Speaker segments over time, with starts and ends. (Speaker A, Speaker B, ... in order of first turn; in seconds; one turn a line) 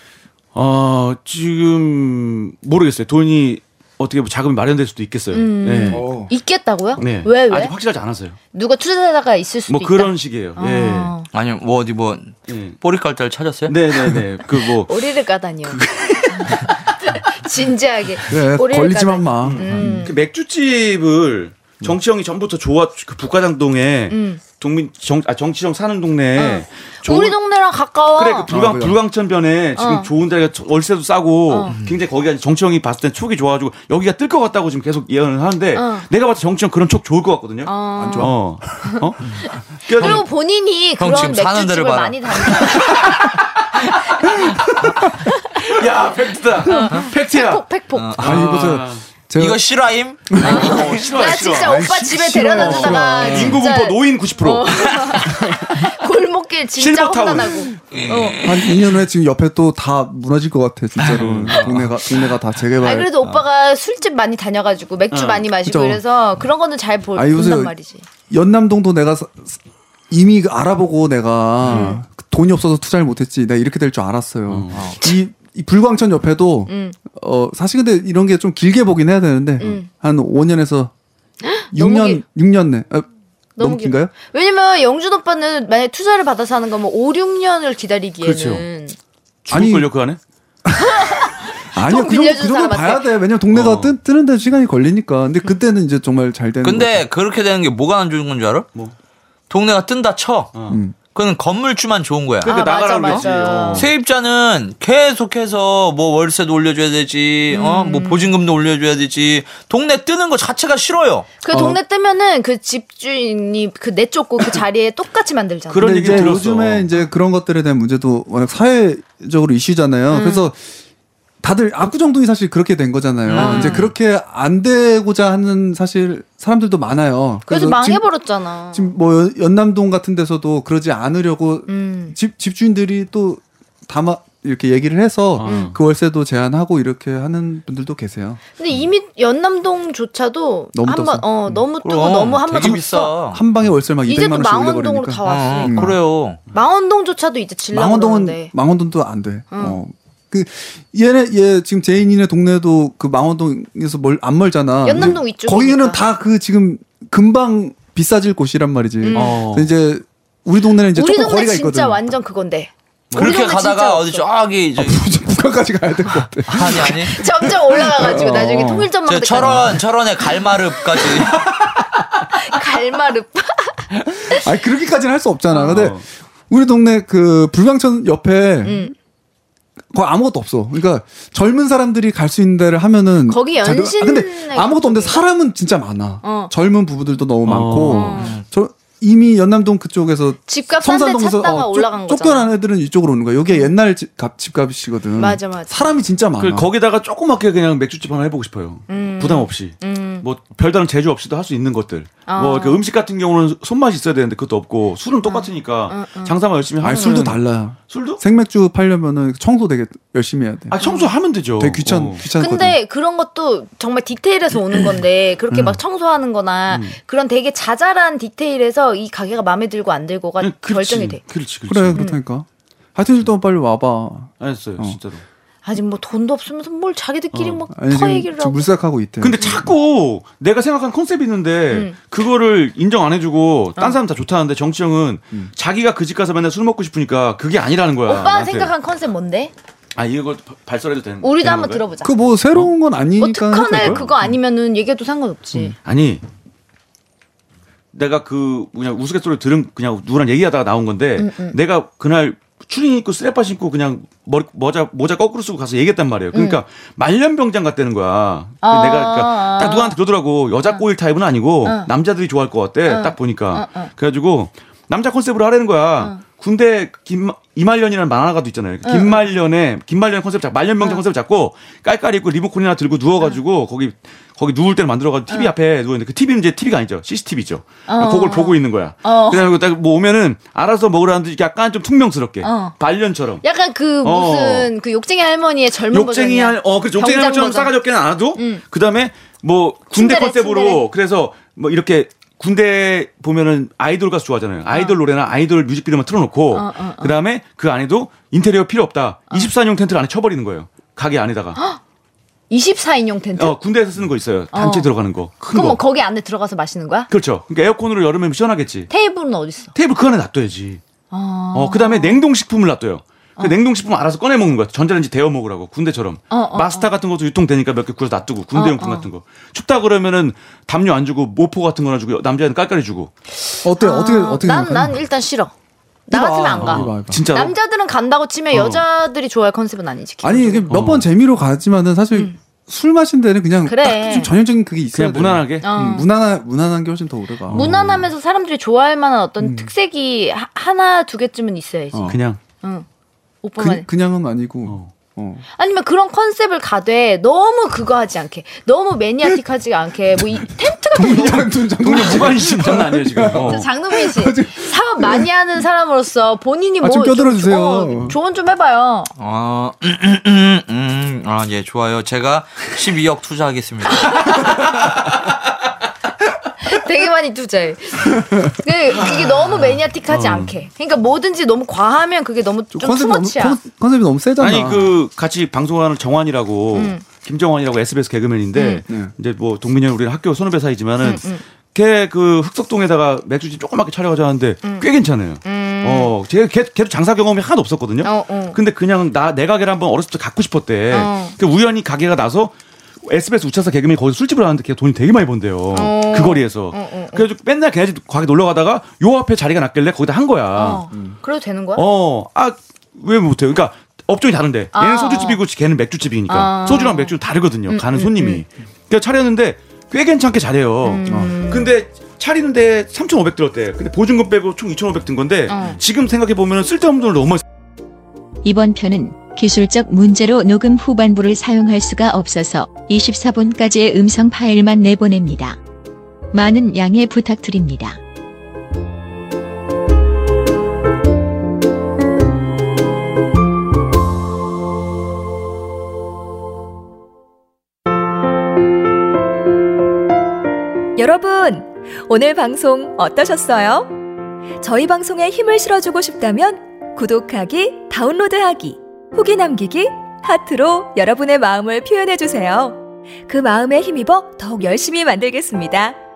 Speaker A: 0.5-6.0
Speaker B: 5.3-7.7
Speaker C: 5.9-6.3
Speaker A: 7.0-8.4
Speaker B: 8.5-11.3
Speaker A: 9.7-11.1
Speaker D: 11.3-14.2
Speaker A: 12.5-12.8
Speaker A: 13.7-15.0
Speaker B: 14.9-20.1
Speaker C: 18.3-20.1
Speaker A: 19.4-27.4
Speaker B: 24.1-24.4
Speaker B: 26.4-28.5
Speaker A: 28.1-39.3
Speaker C: 28.5-29.0
Speaker B: 29.8-30.1
Speaker B: 31.5-31.7
Speaker B: 35.7-36.1
Speaker B: 37.6-43.1
Speaker C: 38.0-39.0
Speaker A: 39.8-40.2
Speaker D: 40.0-40.2
Speaker D: 41.0-43.0
Speaker A: 45.6-47.7
Speaker B: 46.7-48.2
Speaker D: 47.9-48.7
Speaker A: 48.2-49.0
Speaker C: 48.2-49.6
Speaker D: 49.4-51.0
Speaker C: 50.3-53.6
Speaker A: 50.4-51.8
Speaker B: 50.4-58.4
Speaker A: 52.5-55.4
Speaker A: 56.8-57.7
Speaker D: 57.9-58.9
Speaker C: 58.4-63.1
Speaker D: 61.0-61.9
Speaker A: 61.1-61.7
Speaker B: 62.8-68.0
Speaker A: 65.1-65.5
Speaker C: 65.6-66.0
Speaker C: 67.2-67.7
Speaker C: 68.3-80.9
Speaker A: 71.6-71.9
Speaker B: 71.7-72.0
Speaker A: 74.5-74.9
Speaker D: 74.7-75.0
Speaker B: 76.7-77.0
Speaker B: 79.6-79.9
Speaker B: 81.4-82.2
Speaker C: 81.7-83.1
Speaker B: 83.6-89.0
Speaker C: 83.6-84.1
Speaker A: 88.2-88.6
Speaker A: 89.4-90.2
Speaker C: 89.5-89.9
Speaker C: 90.7-97.0
Speaker B: 90.8-93.1
Speaker A: 93.5-93.9
Speaker D: 96.6-98.7
Speaker D: 99.5-100.5
Speaker A: 100.5-100.8
Speaker C: 100.7-100.9
Speaker D: 101.1-111.3
Speaker A: 102.4-103.9
Speaker B: 102.4-103.9
Speaker B: 107.5-108.3
Speaker B: 111.4-116.4
Speaker C: 111.5-111.8
Speaker A: 115.7-116.9
Speaker C: 115.8-120.6
Speaker B: 120.1-120.5
Speaker C: 121.4-128.1
Speaker A: 123.3-123.8
Speaker B: 123.3-123.9
Speaker B: 127.5-128.9
Speaker C: 128.7-138.4
Speaker B: 131.7-132.2
Speaker A: 135.4-135.8
Speaker B: 135.4-135.8
Speaker B: 138.6-143.1
Speaker C: 140.7-141.5
Speaker D: 141.8-143.4
Speaker C: 143.3-146.0
Speaker B: 144.1-146.0
Speaker D: 145.2-146.4
Speaker B: 146.5-148.5
Speaker C: 147.7-162.1
Speaker B: 149.5-149.8
Speaker B: 154.8-156.0
Speaker B: 159.0-159.4
Speaker A: 159.1-159.7
Speaker B: 160.9-164.2
Speaker A: 163.1-163.4
Speaker D: 163.1-165.0
Speaker C: 164.8-168.9
Speaker D: 166.5-167.2
Speaker B: 167.0-169.7
Speaker D: 169.1-171.5
Speaker B: 172.3-174.4
Speaker C: 174.3-178.9
Speaker B: 175.5-175.9
Speaker A: 175.6-176.0
Speaker B: 178.6-178.9
Speaker C: 179.9-196.7
Speaker B: 183.3-185.2
Speaker B: 186.2-186.5
Speaker A: 187.4-188.2
Speaker B: 187.8-188.4
Speaker B: 190.5-192.5
Speaker B: 195.2-195.9
Speaker A: 196.4-208.2
Speaker B: 198.9-200.2
Speaker B: 202.3-202.8
Speaker B: 205.2-207.3
Speaker C: 206.8-210.8
Speaker A: 210.7-212.2
Speaker B: 210.8-211.1
Speaker C: 211.6-212.8
Speaker B: 212.3-221.2
Speaker A: 216.7-217.0
Speaker A: 220.4-222.0
Speaker C: 221.7-225.0
Speaker B: 221.9-222.2
Speaker A: 224.4-225.2
Speaker B: 225.6-228.6
Speaker A: 227.3-227.7
Speaker C: 227.7-229.6
Speaker A: 229.2-238.7
Speaker B: 231.7-231.9
Speaker B: 238.1-239.5
Speaker A: 239.9-241.8
Speaker B: 241.2-242.1
Speaker C: 242.0-244.0
Speaker B: 243.2-245.8
Speaker A: 243.7-244.1
Speaker A: 245.8-246.2
Speaker A: 247.9-283.4
Speaker B: 251.2-251.6
Speaker B: 256.3-256.6
Speaker B: 258.6-260.0
Speaker B: 261.6-261.9
Speaker B: 262.9-263.9
Speaker B: 268.8-269.2
Speaker B: 275.3-275.5
Speaker B: 277.9-279.6
Speaker B: 282.4-282.8
Speaker B: 283.4-287.8
Speaker A: 284.0-284.7
Speaker A: 285.9-301.6
Speaker B: 288.3-288.6
Speaker B: 289.9-290.9
Speaker B: 294.7-295.0
Speaker B: 296.5-297.1
Speaker B: 302.5-303.6
Speaker A: 303.4-305.8
Speaker B: 304.5-304.9
Speaker B: 305.5-307.1
Speaker A: 307.1-308.9
Speaker B: 308.9-309.7
Speaker A: 309.7-310.8
Speaker B: 311.1-312.2
Speaker A: 311.5-323.1
Speaker B: 316.3-316.9
Speaker B: 318.5-319.1
Speaker C: 323.6-325.0
Speaker B: 323.8-325.5
Speaker B: 326.1-330.7
Speaker C: 326.1-327.2
Speaker A: 326.6-327.5
Speaker A: 328.5-328.8
Speaker C: 330.2-337.7
Speaker A: 330.7-331.1
Speaker B: 333.6-334.3
Speaker A: 334.9-335.7
Speaker B: 335.6-336.1
Speaker A: 337.5-338.1
Speaker B: 337.5-342.9
Speaker C: 339.4-339.7
Speaker C: 341.9-342.2
Speaker A: 342.1-342.4
Speaker B: 343.4-343.9
Speaker C: 343.6-345.4
Speaker A: 344.6-344.9
Speaker B: 345.6-351.5
Speaker C: 350.9-355.3
Speaker A: 351.8-353.7
Speaker B: 353.3-359.1
Speaker C: 356.8-358.1
Speaker D: 359.2-364.4
Speaker B: 363.9-364.6
Speaker B: 366.6-373.6
Speaker A: 370.1-370.5
Speaker C: 372.7-374.9
Speaker A: 374.4-400.8
Speaker B: 376.7-377.0
Speaker B: 378.5-378.8
Speaker B: 381.0-381.4
Speaker B: 385.4-386.1
Speaker B: 388.0-388.6
Speaker B: 390.9-391.4
Speaker B: 395.7-397.3
Speaker B: 400.5-401.9
Speaker C: 400.9-401.2
Speaker A: 401.7-417.4
Speaker B: 404.7-405.4
Speaker B: 406.3-407.1
Speaker B: 407.7-408.4
Speaker B: 410.8-411.8
Speaker C: 411.1-411.3
Speaker B: 415.5-415.8
Speaker E: 418.4-425.6
Speaker E: 426.3-428.0
Speaker F: 441.0-444.0
Speaker F: 444.6-456.0